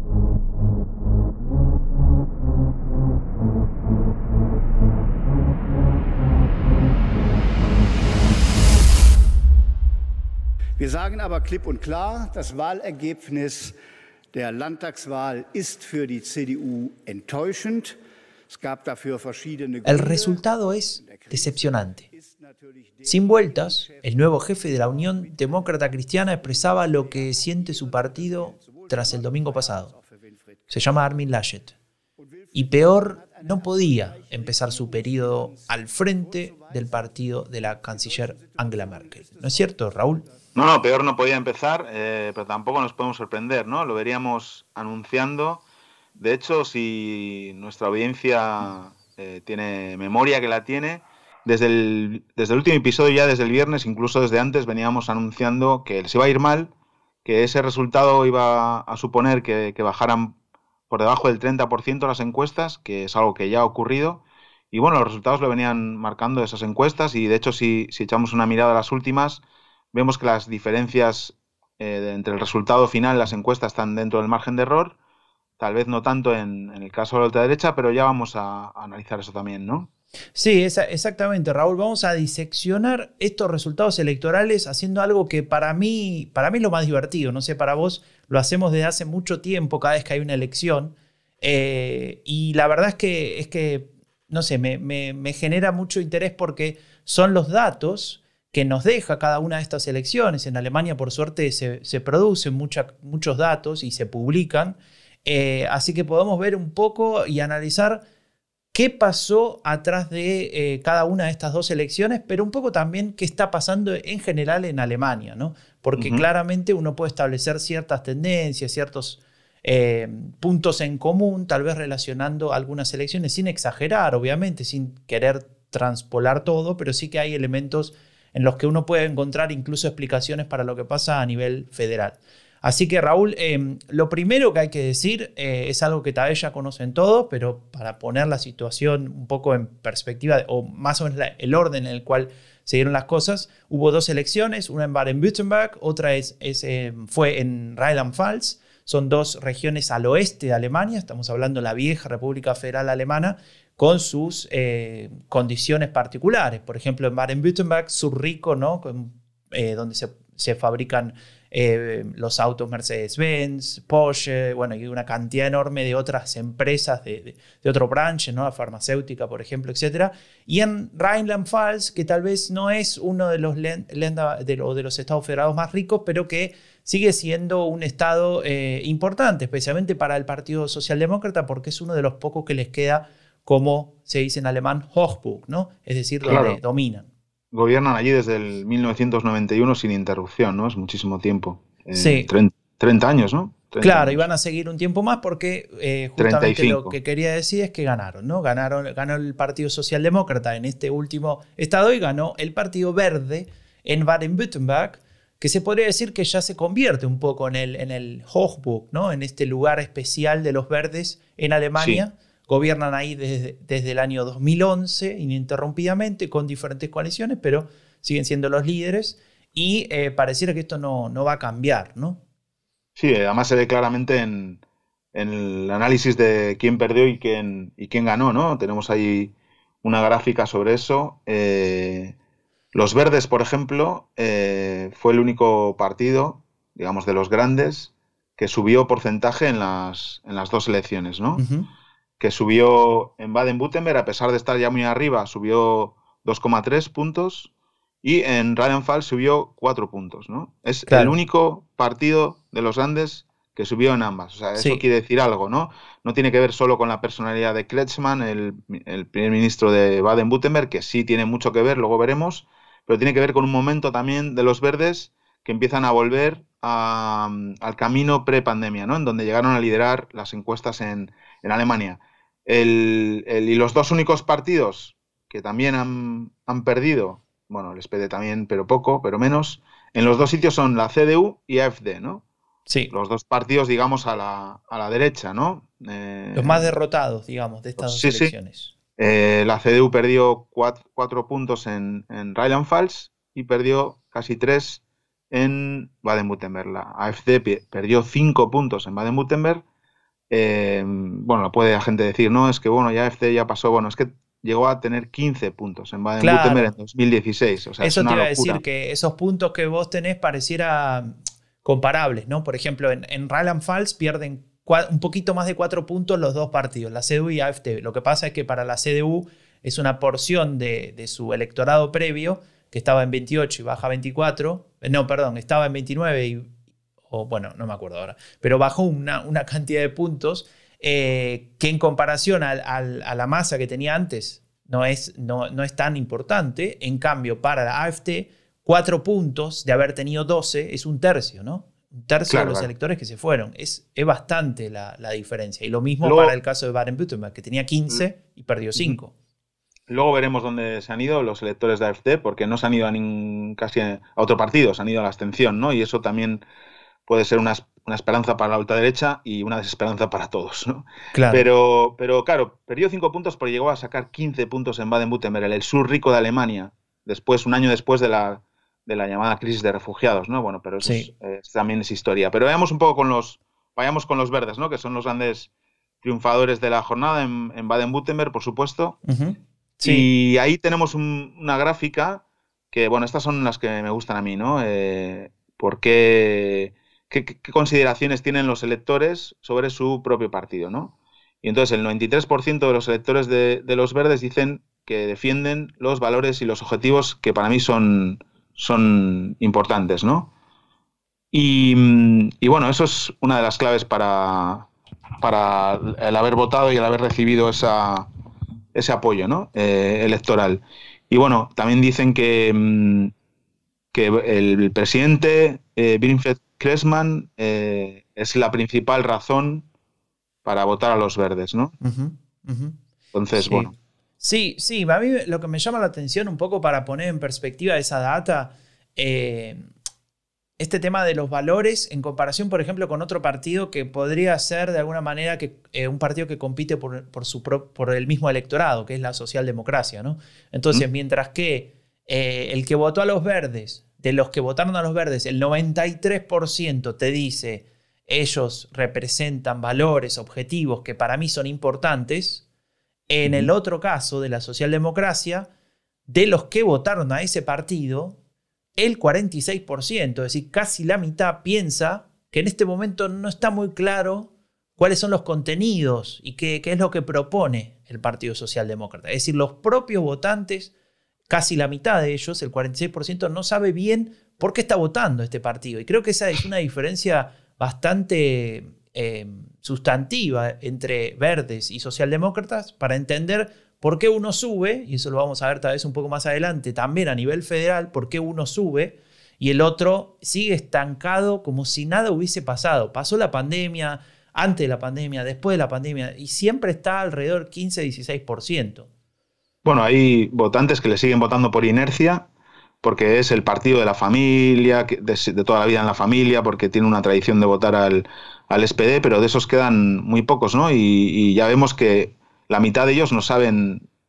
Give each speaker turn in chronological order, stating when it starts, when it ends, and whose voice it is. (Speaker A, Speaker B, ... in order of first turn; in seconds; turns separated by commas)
Speaker A: 10.8-13.8, Speaker A: 14.3-17.9, Speaker A: 18.5-20.4, Speaker B: 19.8-22.0, Speaker A: 21.0-25.6, Speaker B: 23.1-29.9, Speaker A: 26.4-31.2, Speaker B: 30.7-31.7, Speaker A: 32.2-40.5, Speaker B: 32.5-40.2, Speaker C: 40.5-45.6, Speaker C: 46.2-56.7, Speaker C: 57.2-60.4, Speaker C: 60.9-75.0, Speaker C: 75.6-79.9, Speaker B: 80.3-108.0, Speaker B: 108.7-187.1, Speaker C: 116.0-116.2, Speaker C: 186.2-186.6, Speaker C: 187.5-194.2, Speaker B: 191.9-192.3, Speaker B: 193.8-222.2, Speaker C: 196.2-196.9, Speaker C: 223.0-224.6, Speaker C: 225.1-232.1, Speaker C: 232.7-241.4, Speaker B: 241.4-241.7, Speaker C: 242.2-247.5, Speaker C: 248.0-282.2, Speaker B: 250.9-251.2, Speaker B: 254.6-254.8, Speaker B: 282.7-282.9, Speaker C: 282.9-286.7, Speaker B: 286.3-288.7, Speaker C: 287.8-288.3, Speaker C: 289.0-299.6, Speaker C: 300.3-308.6, Speaker B: 306.2-306.7, Speaker B: 307.8-326.5, Speaker B: 327.1-349.1, Speaker C: 342.3-342.7, Speaker C: 346.0-346.3, Speaker C: 349.9-356.4, Speaker C: 357.1-375.5, Speaker B: 361.1-361.4, Speaker B: 370.8-371.1, Speaker C: 376.0-379.0, Speaker B: 379.0-380.1, Speaker C: 379.8-400.3, Speaker C: 401.3-404.7, Speaker C: 405.2-408.1, Speaker C: 408.7-413.1, Speaker C: 413.9-419.6, Speaker C: 420.4-421.7, Speaker B: 421.8-422.8, Speaker C: 423.1-423.7, Speaker B: 423.3-429.7, Speaker B: 430.6-452.4, Speaker B: 453.1-455.5, Speaker C: 453.2-453.5, Speaker B: 456.1-458.2, Speaker B: 458.8-470.7, Speaker B: 471.3-498.9, Speaker C: 499.6-502.3, Speaker C: 502.8-513.9